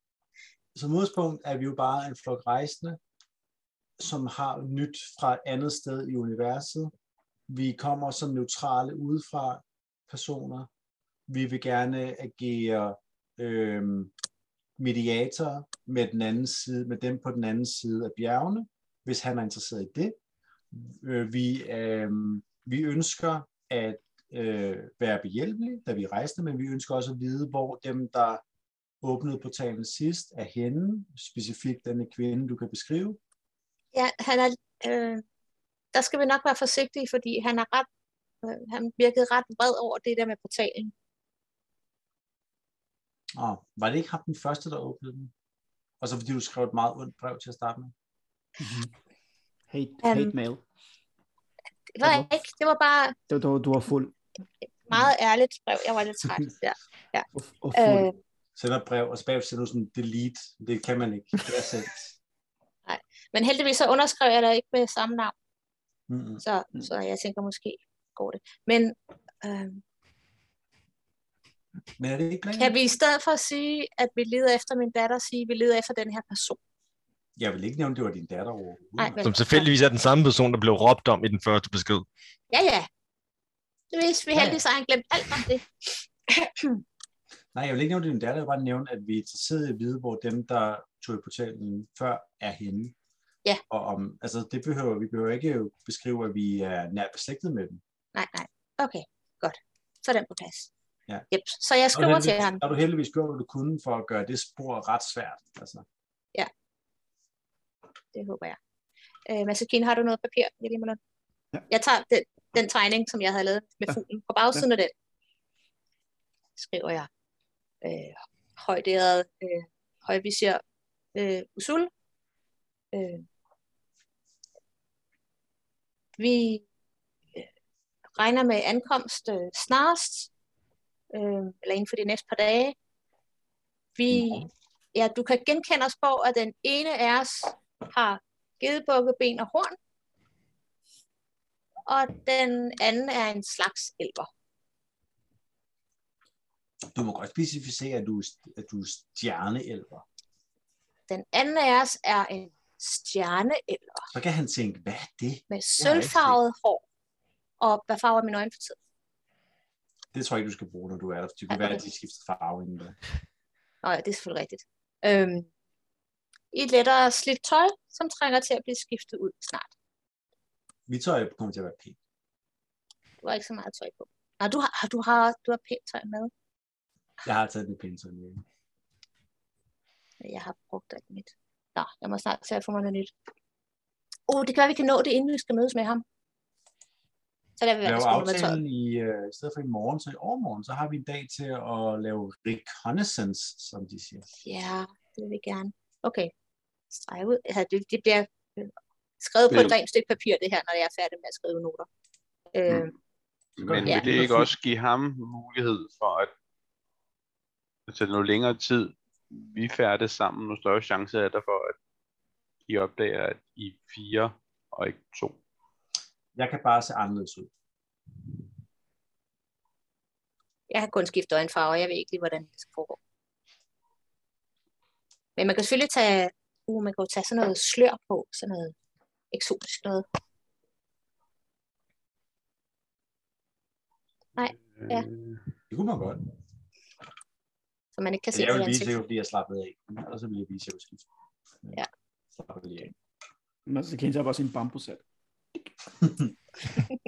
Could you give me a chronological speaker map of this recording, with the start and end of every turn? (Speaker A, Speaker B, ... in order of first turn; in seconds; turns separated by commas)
Speaker A: 0.7-3.0, Speaker A: 4.0-6.9, Speaker A: 7.5-10.7, Speaker A: 11.3-14.1, Speaker A: 14.8-20.1, Speaker A: 20.7-28.4, Speaker A: 29.0-33.2, Speaker B: 33.9-35.2, Speaker B: 35.9-37.9, Speaker B: 38.4-40.9, Speaker A: 43.3-45.3, Speaker A: 46.0-47.9, Speaker C: 48.6-48.9, Speaker C: 49.7-50.6, Speaker B: 50.0-50.3, Speaker B: 51.9-53.1, Speaker C: 52.0-52.3, Speaker C: 53.3-54.1, Speaker B: 54.9-58.1, Speaker C: 57.3-58.1, Speaker A: 58.5-62.1, Speaker B: 62.9-65.3, Speaker A: 66.1-66.4, Speaker B: 66.4-69.8, Speaker A: 72.0-72.7, Speaker B: 72.6-76.6, Speaker A: 77.4-79.2, Speaker B: 79.0-79.7, Speaker D: 79.2-82.1, Speaker B: 82.5-82.9, Speaker B: 83.9-85.7, Speaker A: 84.3-84.6, Speaker B: 86.3-86.8, Speaker A: 87.5-92.9, Speaker A: 93.7-97.8, Speaker B: 98.1-100.7, Speaker B: 101.3-102.6, Speaker A: 101.9-105.8, Speaker B: 108.1-108.6, Speaker B: 109.2-111.0, Speaker B: 111.7-114.9, Speaker B: 116.6-117.1, Speaker B: 117.8-120.6, Speaker B: 121.1-121.9, Speaker B: 122.9-123.2, Speaker B: 126.2-126.6, Speaker B: 128.2-130.3, Speaker B: 131.1-132.7, Speaker B: 133.9-139.8, Speaker B: 141.9-144.3, Speaker A: 146.9-150.0, Speaker B: 151.1-154.1, Speaker A: 154.1-156.4, Speaker B: 155.5-156.8, Speaker B: 157.6-158.8, Speaker A: 160.1-162.9, Speaker B: 161.5-161.8, Speaker B: 163.8-165.5, Speaker B: 166.5-169.7, Speaker A: 170.9-172.0, Speaker B: 173.2-176.3, Speaker A: 177.2-178.4, Speaker B: 180.2-183.1, Speaker B: 184.3-186.0, Speaker B: 187.6-188.6, Speaker A: 187.8-194.2, Speaker B: 194.4-196.3, Speaker B: 196.9-201.9, Speaker B: 202.5-202.9, Speaker E: 203.6-206.3, Speaker A: 203.6-204.5, Speaker B: 203.8-204.1, Speaker E: 207.9-211.7, Speaker E: 212.7-215.4, Speaker A: 216.3-217.5, Speaker B: 220.7-223.0, Speaker B: 225.4-228.7, Speaker B: 229.3-230.0, Speaker B: 234.4-235.1, Speaker E: 234.6-235.4, Speaker A: 235.7-236.2, Speaker B: 238.0-238.9, Speaker A: 238.3-241.1, Speaker A: 242.3-242.9, Speaker C: 243.7-245.0, Speaker A: 246.0-246.3